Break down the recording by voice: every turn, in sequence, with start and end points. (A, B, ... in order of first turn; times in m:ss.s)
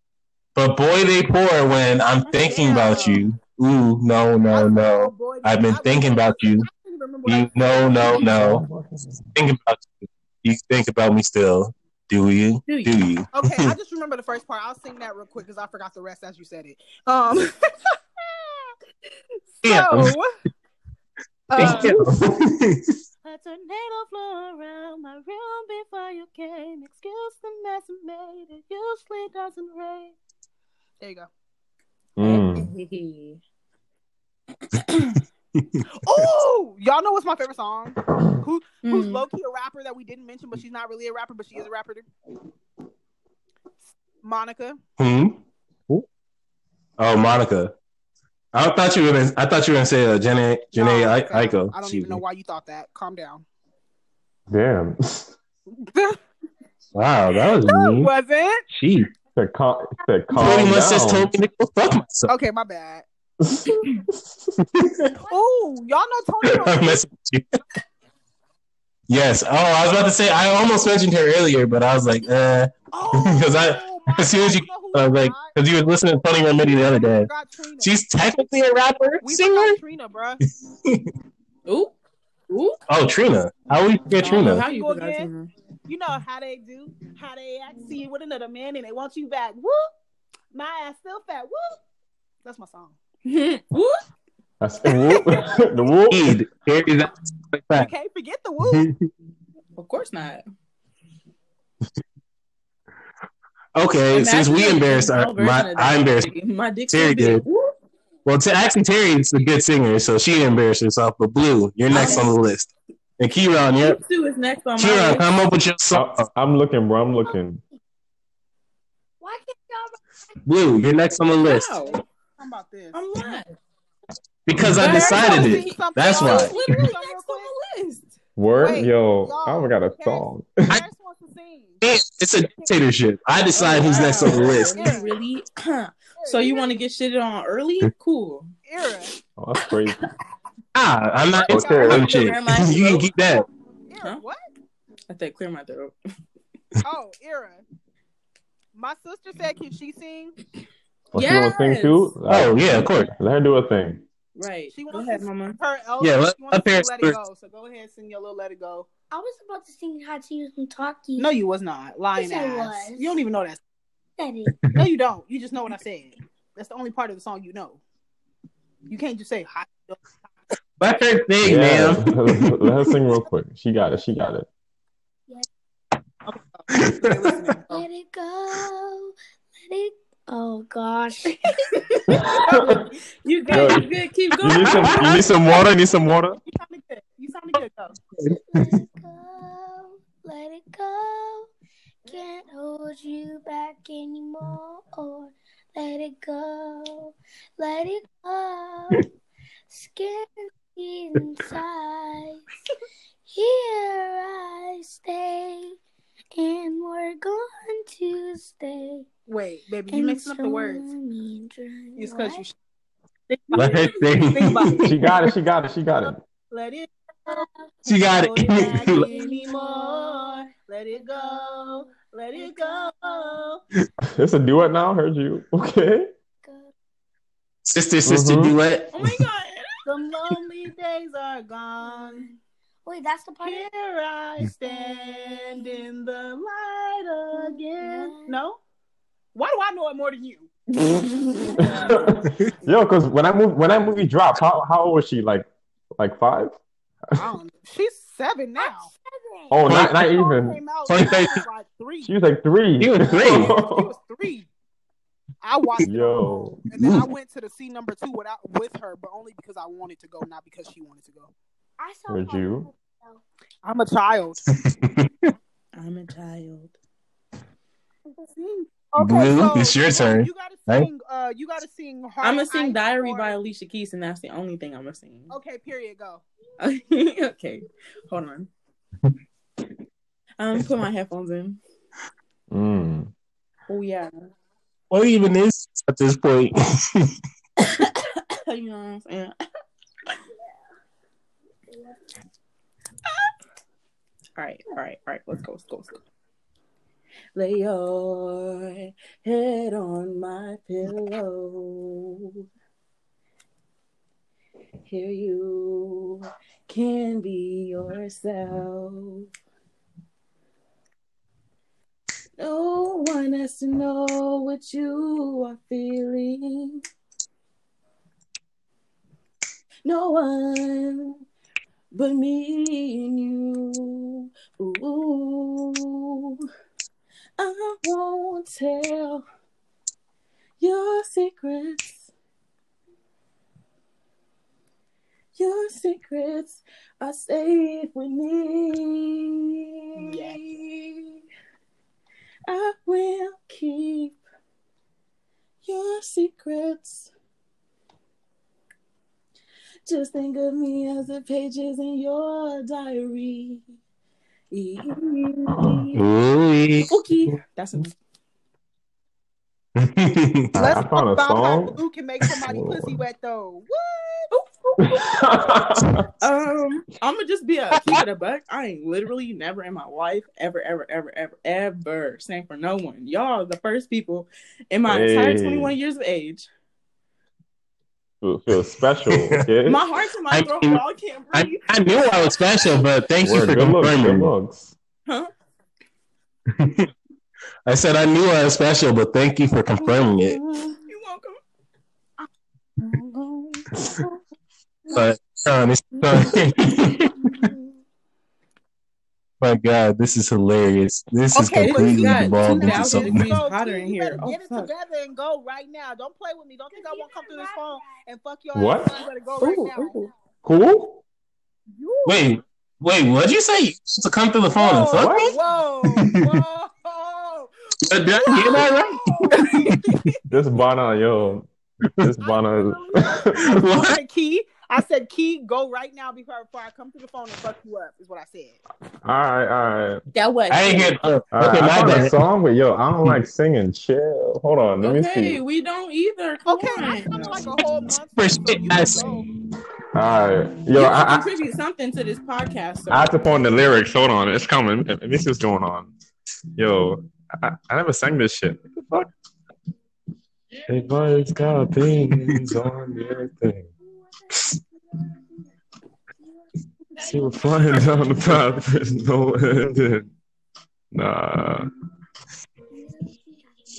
0:00.6-0:06.7 A
0:02.3-0:03.3 B
0:02.4-0:03.1 C
0:04.5-0:08.2 B
0:07.3-0:08.6 A
0:08.2-0:09.2 D
0:09.4-0:13.7 A
0:12.7-0:12.9 C
0:13.3-0:18.8 B
0:19.6-0:20.3 B
0:19.6-0:20.2 A
0:21.5-0:22.2 B
0:21.6-0:22.1 C
0:21.6-0:23.0 A
0:23.2-0:30.2 B
0:31.0-0:31.3 B
0:32.2-0:32.7 D
0:32.2-0:33.4 C
0:34.7-0:35.2 C
0:35.6-0:35.8 A
0:36.0-0:42.1 B
0:38.8-0:39.2 C
0:44.2-0:44.8 B
0:45.0-0:46.0 A
0:47.0-0:47.8 A
0:48.5-0:52.2 A
0:50.7-0:53.4 B
0:54.5-0:55.3 D
0:55.8-0:56.2 B
0:56.9-0:58.1 A
0:57.6-0:58.6 B
0:58.7-0:59.1 A
0:59.4-1:01.3 D
1:00.4-1:02.3 A
1:02.3-1:03.1 B
1:03.4-1:04.6 D
1:04.8-1:05.1 A
1:05.3-1:07.0 B
1:06.4-1:07.5 A
1:09.1-1:17.3 A
1:12.9-1:15.6 B
1:16.6-1:18.0 B
1:17.8-1:19.8 A
1:19.2-1:20.4 B
1:21.7-1:21.9 C
1:22.5-1:22.8 C
1:22.9-1:24.6 A
1:24.2-1:25.5 C
1:24.4-1:25.3 B
1:25.9-1:29.9 B
1:30.5-1:31.8 B
1:32.4-1:33.0 B
1:33.2-1:34.0 C
1:34.6-1:36.4 D
1:36.1-1:37.9 A
1:37.7-1:38.9 B
1:38.7-1:39.0 A
1:39.8-1:40.4 C
1:43.8-1:46.3 A
1:44.1-1:47.7 C
1:46.9-1:47.4 A
1:48.2-1:54.0 A
1:51.9-1:52.3 C
1:53.8-1:55.2 C
1:54.8-1:56.3 A
1:55.9-1:57.6 D
1:59.2-2:00.0 E
2:00.5-2:01.8 A
2:01.4-2:02.0 C
2:01.8-2:03.0 B
2:02.9-2:03.5 C
2:04.5-2:06.6 A
2:04.8-2:07.5 B
2:04.8-2:08.1 C
2:08.4-2:10.8 D
2:08.6-2:11.8 B
2:11.8-2:14.8 A
2:13.6-2:18.5 C
2:13.9-2:15.2 B
2:16.2-2:16.7 B
2:18.6-2:19.1 B
2:19.4-2:20.0 D
2:20.8-2:23.4 A
2:21.4-2:22.2 B
2:21.5-2:22.1 D
2:21.8-2:23.1 C
2:23.9-2:24.5 B
2:25.1-2:25.9 C
2:26.8-2:27.6 B
2:28.8-2:30.4 B
2:31.1-2:34.0 D
2:31.2-2:32.1 C
2:32.3-2:33.1 A
2:34.4-2:35.6 C
2:34.7-2:38.9 B
2:36.0-2:37.2 A
2:39.1-2:41.3 E
2:41.2-2:43.6 B
2:42.2-2:43.2 E
2:44.2-2:44.7 E
2:44.7-2:47.8 B
2:48.9-2:50.2 B
2:50.8-2:52.5 A
2:51.4-2:54.5 D
2:56.3-2:57.9 B
2:56.8-2:57.0 A
2:57.7-3:01.5 E
3:01.7-3:02.6 C
3:02.1-3:02.9 D
3:02.1-3:02.5 E
3:02.4-3:02.8 B
3:03.2-3:05.6 C
3:03.5-3:03.8 B
3:03.5-3:06.4 D
3:04.7-3:05.0 A
3:06.4-3:08.0 B
3:08.2-3:08.8 A
3:08.2-3:11.5 E
3:12.1-3:19.1 E
3:19.7-3:22.4 E
3:23.3-3:25.8 E
3:26.4-3:29.1 E
3:29.3-3:30.9 B
3:29.9-3:32.4 E
3:32.0-3:32.6 B
3:33.3-3:35.1 B
3:33.5-3:35.0 A
3:34.8-3:36.2 D
3:36.5-3:37.4 B
3:37.9-3:39.1 A
3:38.1-3:43.6 B
3:38.6-3:43.4 E
3:44.2-3:46.1 D
3:46.4-3:46.7 E
3:47.7-3:49.0 A
3:48.0-3:48.5 D
3:48.9-3:49.8 C
3:49.8-3:52.3 B
3:51.8-3:52.3 E
3:52.8-3:53.7 E
3:53.4-3:58.6 B
3:54.4-3:55.9 E
3:57.3-3:58.4 E
3:59.4-4:02.0 B
4:01.5-4:02.1 E
4:01.6-4:05.5 D
4:06.0-4:06.6 D
4:07.2-4:08.9 B
4:08.6-4:09.6 E
4:09.5-4:10.6 D
4:09.7-4:10.1 A
4:09.9-4:12.1 B
4:10.9-4:11.4 A
4:12.0-4:13.9 D
4:12.8-4:13.5 A
4:13.1-4:14.5 B
4:15.4-4:21.3 B
4:15.8-4:16.6 D
4:16.8-4:17.0 A
4:21.8-4:23.2 E
4:22.1-4:22.7 D
4:23.6-4:24.4 B
4:24.6-4:25.3 A
4:25.8-4:26.8 C
4:28.2-4:33.4 B
4:29.0-4:30.9 A
4:32.2-4:35.3 C
4:35.3-4:36.2 B
4:36.6-4:38.5 C
4:40.4-4:41.6 C
4:42.5-4:43.1 D
4:43.7-4:44.1 C
4:44.9-4:47.1 A
4:47.6-4:49.4 C
4:54.4-4:56.0 C
4:57.4-5:02.4 C
5:04.8-5:09.3 C
5:12.4-5:16.8 C
5:19.8-5:21.2 C
5:21.9-5:26.5 C
5:27.4-5:29.2 C
5:30.6-5:32.1 C
5:35.4-5:41.2 C
5:40.0-5:40.4 B
5:42.5-5:44.2 C
5:45.6-5:47.1 C
5:49.9-5:53.7 C
5:54.5-5:56.0 C
5:55.5-5:55.9 D
5:55.9-5:56.9 A
5:56.9-5:57.9 C
5:59.8-6:00.6 A
6:00.5-6:01.8 D
6:00.6-6:04.3 B
6:02.4-6:03.0 D
6:04.3-6:05.3 C
6:04.8-6:06.1 D
6:06.2-6:16.5 C
6:07.8-6:08.0 A
6:14.8-6:15.7 D
6:18.2-6:19.8 D
6:19.1-6:19.4 A
6:19.6-6:22.1 C
6:20.3-6:20.8 A
6:21.3-6:24.3 A
6:23.2-6:24.8 D
6:26.6-6:26.9 A
6:27.7-6:30.4 A
6:30.8-6:31.4 C
6:32.9-6:33.5 B
6:34.9-6:37.2 A
6:39.4-6:43.3 A
6:41.4-6:50.0 B
6:41.6-6:44.7 C
6:46.7-6:48.0 E
6:48.5-6:49.0 D
6:49.4-6:50.1 C
6:50.4-6:51.0 D
6:51.8-6:52.2 B
6:52.1-6:55.3 A
6:54.6-7:00.1 B
6:55.0-6:55.4 D
6:56.0-6:56.3 A
6:57.8-6:59.8 A
7:00.3-7:01.5 D
7:02.0-7:03.6 D
7:02.2-7:08.6 B
7:03.4-7:04.0 A
7:09.0-7:10.0 D
7:10.1-7:10.9 C
7:10.5-7:12.2 A
7:11.3-7:15.4 D
7:14.8-7:17.5 C
7:16.5-7:19.3 B
7:18.2-7:19.3 A
7:20.0-7:21.3 D
7:20.7-7:23.1 C
7:22.9-7:25.9 D
7:26.6-7:29.1 D
7:30.7-7:33.7 D
7:37.0-7:40.1 D
7:40.9-7:41.7 D
7:42.8-7:43.2 E